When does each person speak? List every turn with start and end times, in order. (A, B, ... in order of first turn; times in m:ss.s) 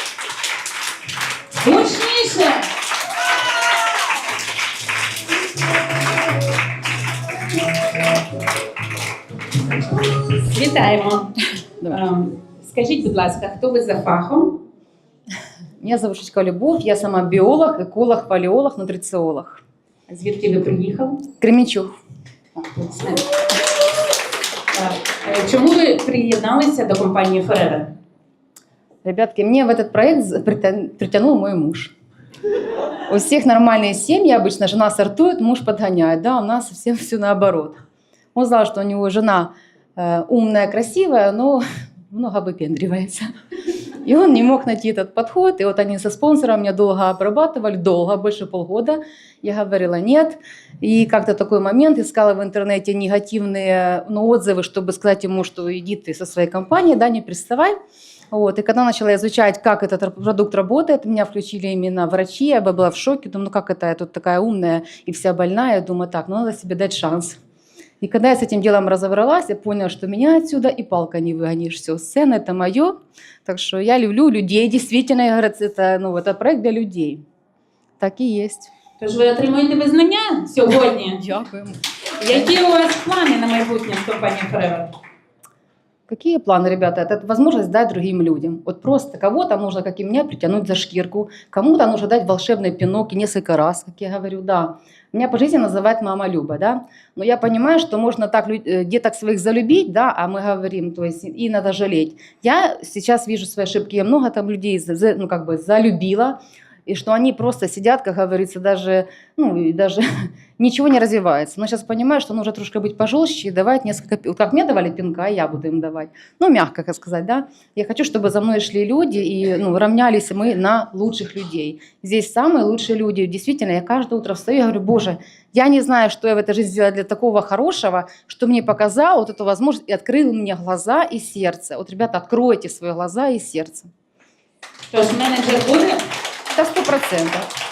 0:01.6-0:02.7 A
0:10.3-0:11.3 A
0:11.8-0:14.6 A
0:15.8-0:19.6 B
0:20.1-0:21.2 A
0:21.4-0:21.9 B
0:22.5-0:23.2 A
0:24.7-0:27.9 A
0:29.0-0:31.9 B
0:33.1-0:37.8 B
0:38.3-0:43.3 B
0:44.0-0:57.8 B
0:58.3-1:07.4 B
1:08.0-1:17.2 B
1:18.0-1:18.7 B
1:19.0-1:21.2 A
1:21.2-1:22.5 B
1:22.2-1:24.9 A
1:26.1-2:13.9 B
2:14.9-2:16.0 A
2:16.5-2:17.5 B